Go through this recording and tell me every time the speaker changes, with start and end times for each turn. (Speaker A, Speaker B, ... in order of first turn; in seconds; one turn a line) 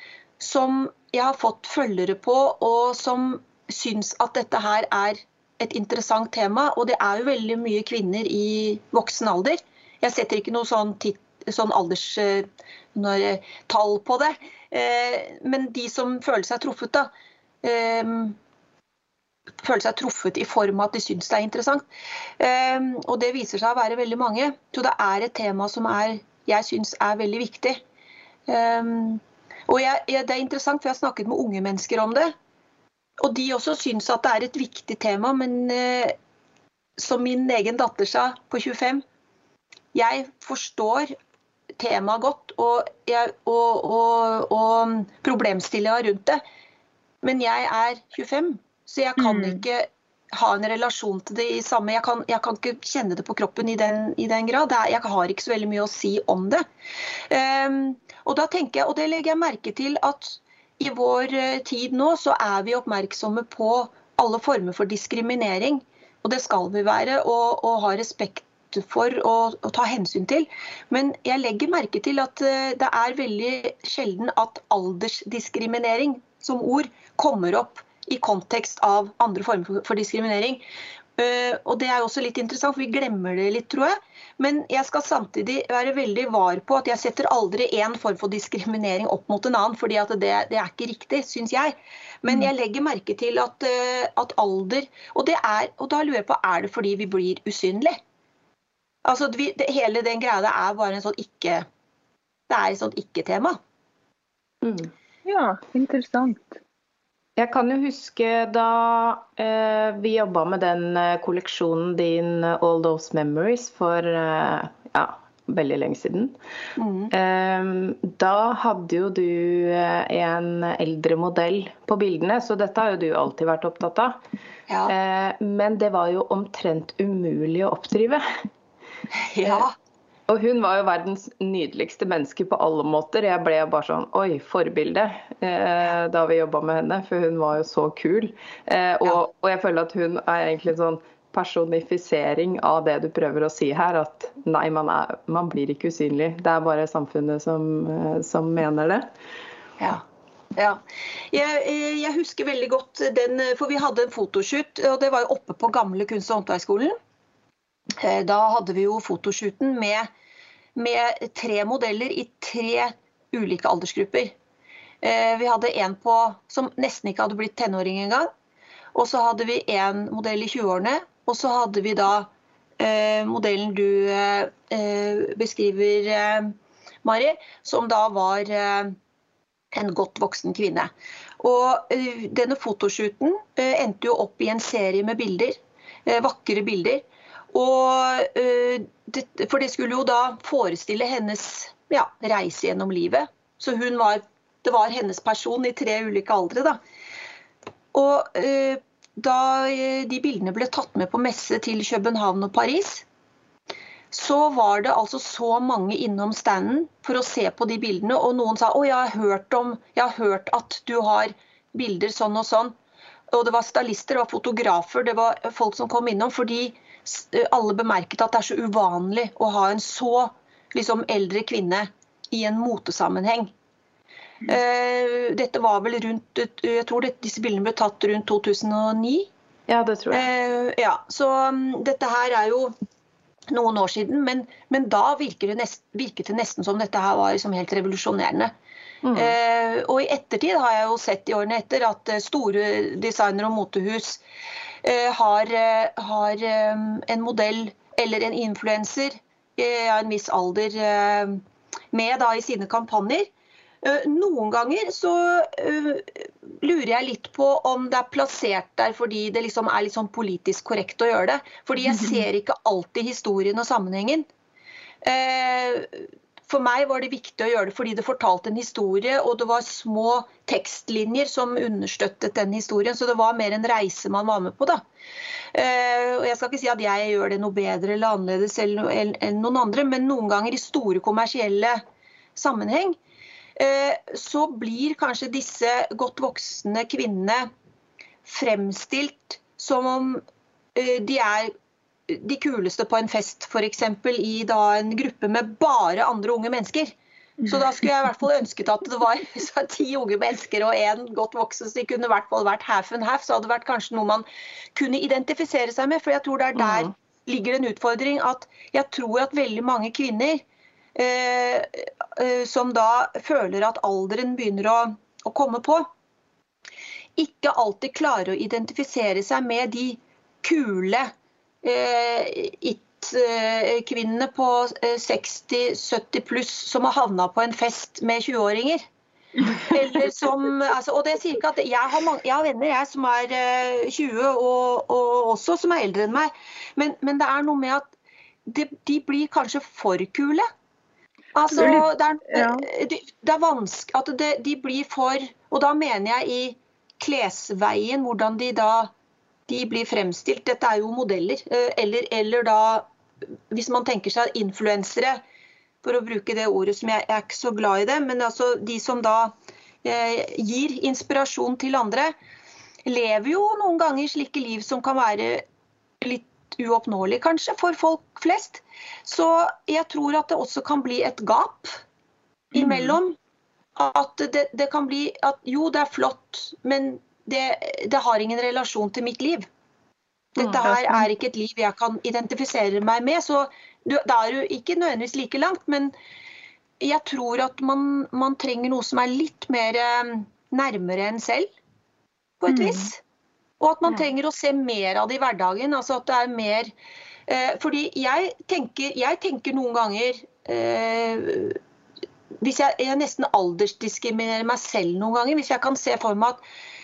Speaker A: 0.4-17.1
Speaker A: 17.6-18.4
Speaker A: 19.6-21.8
Speaker A: 22.4-27.8
Speaker A: 28.5-32.3
Speaker A: 33.2-36.1
Speaker A: 37.0-39.0
Speaker A: 39.9-41.1
Speaker A: 41.8-46.4
Speaker A: 47.2-56.6
Speaker B: 49.2-49.6
Speaker A: 57.3-80.6
Speaker A: 81.2-98.0
Speaker A: 99.0-101.7
Speaker A: 102.5-103.6
Speaker C: 104.6-104.9
Speaker B: 105.2-106.6
Speaker C: 107.4-116.3
Speaker A: 116.8-117.1
Speaker C: 117.1-124.2
Speaker C: 124.8-128.2
Speaker A: 129.2-129.7
Speaker C: 130.3-149.1
Speaker A: 150.6-157.0
Speaker A: 158.0-160.1
Speaker A: 160.7-164.3
Speaker A: 165.0-168.3
Speaker A: 168.9-178.9
Speaker A: 179.7-196.8
Speaker A: 197.9-203.0
Speaker A: 204.1-212.7
Speaker A: 213.3-223.5
Speaker A: 224.4-229.3
Speaker C: 229.7-230.3
Speaker A: 230.1-232.7
Speaker A: 233.5-238.5
Speaker C: 239.0-239.3
Speaker A: 239.1-244.2
Speaker A: 244.8-251.4
Speaker A: 251.9-253.3
Speaker A: 253.8-264.3
Speaker A: 265.0-274.8
Speaker A: 275.5-281.8
Speaker A: 282.4-283.0
Speaker A: 283.6-287.5
Speaker A: 288.2-290.2
Speaker A: 290.8-291.5
Speaker A: 292.1-296.9
Speaker A: 297.4-310.4
Speaker C: 306.6-306.9
Speaker A: 310.9-315.9
Speaker A: 317.2-321.1
Speaker A: 321.6-328.8
Speaker A: 329.5-337.8
Speaker A: 338.5-340.5
Speaker A: 341.3-348.9
Speaker B: 341.5-342.7
Speaker A: 349.5-352.9
Speaker A: 353.5-355.2
Speaker A: 355.8-359.3
Speaker A: 359.8-362.1
Speaker A: 362.8-365.4
Speaker A: 366.0-371.8
Speaker A: 372.5-373.1
Speaker B: 372.6-372.9
Speaker A: 373.8-379.5
Speaker A: 380.4-385.9
Speaker A: 386.8-391.5
Speaker A: 392.4-393.0
Speaker B: 392.5-392.9
Speaker A: 393.6-396.7
Speaker A: 397.3-401.6
Speaker A: 402.4-406.4